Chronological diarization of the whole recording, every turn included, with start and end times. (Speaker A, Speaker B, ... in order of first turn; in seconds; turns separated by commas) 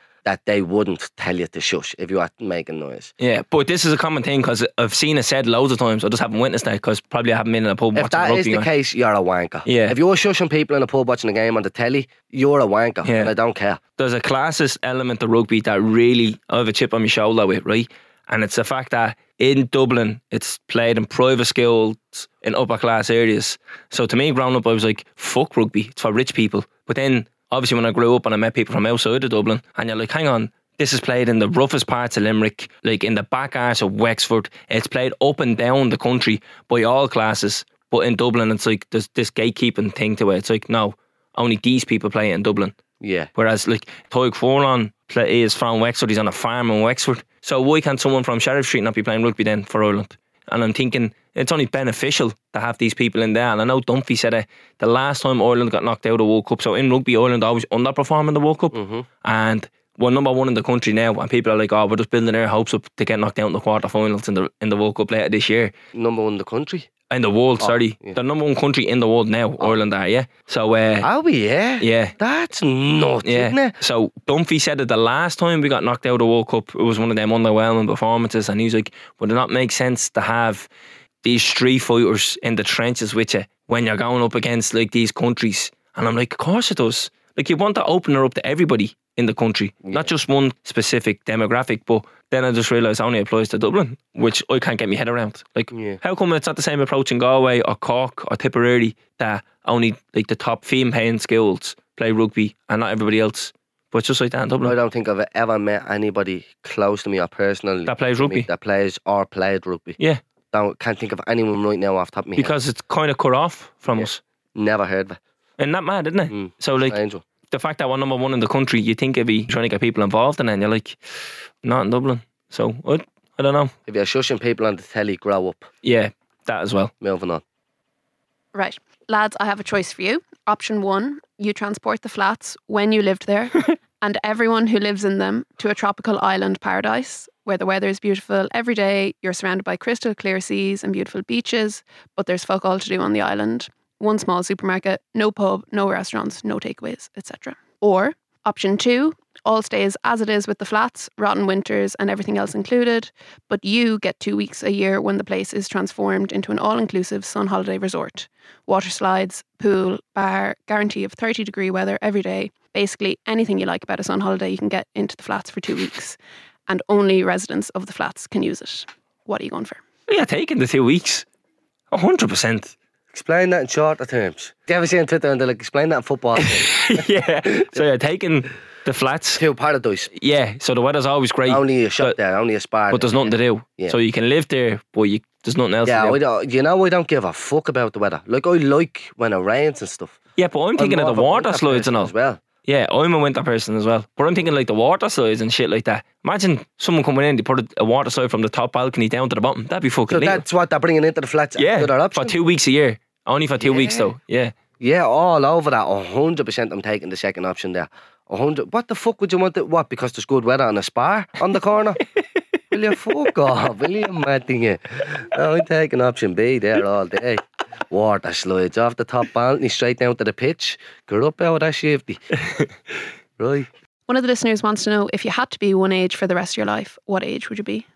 Speaker A: 0.2-3.1, Speaker B: 3.2-8.7, Speaker A: 8.0-13.8, Speaker B: 9.7-10.0, Speaker B: 13.1-13.3, Speaker B: 14.0-42.8, Speaker A: 43.0-43.3, Speaker B: 43.4-65.7, Speaker A: 58.7-59.1, Speaker A: 65.9-66.9, Speaker B: 67.1-71.1, Speaker A: 67.6-68.2, Speaker A: 71.0-73.8, Speaker B: 71.8-72.1, Speaker B: 73.2-80.7, Speaker B: 81.2-104.8, Speaker A: 95.7-96.0, Speaker A: 104.6-110.0, Speaker B: 107.9-108.5, Speaker A: 110.5-112.5, Speaker B: 112.4-114.2, Speaker A: 114.0-115.2, Speaker B: 115.6-117.0, Speaker A: 116.3-117.2, Speaker B: 117.5-121.0, Speaker B: 121.6-123.7, Speaker A: 123.9-125.7, Speaker B: 125.8-126.9, Speaker A: 127.0-127.4, Speaker C: 128.5-169.8, Speaker B: 170.1-171.3, Speaker B: 171.9-172.7, Speaker A: 173.1-176.8, Speaker B: 176.4-179.4, Speaker A: 177.5-177.8, Speaker A: 179.4-180.1, Speaker B: 180.1-182.2, Speaker A: 181.5-184.0, Speaker B: 182.9-186.2, Speaker A: 185.8-190.2, Speaker B: 190.4-192.1, Speaker A: 190.8-192.4, Speaker B: 192.7-200.4, Speaker A: 200.1-202.3, Speaker B: 201.6-204.5, Speaker A: 203.6-204.1, Speaker A: 204.8-212.0, Speaker A: 212.7-222.2, Speaker A: 223.4-223.7, Speaker C: 224.1-227.9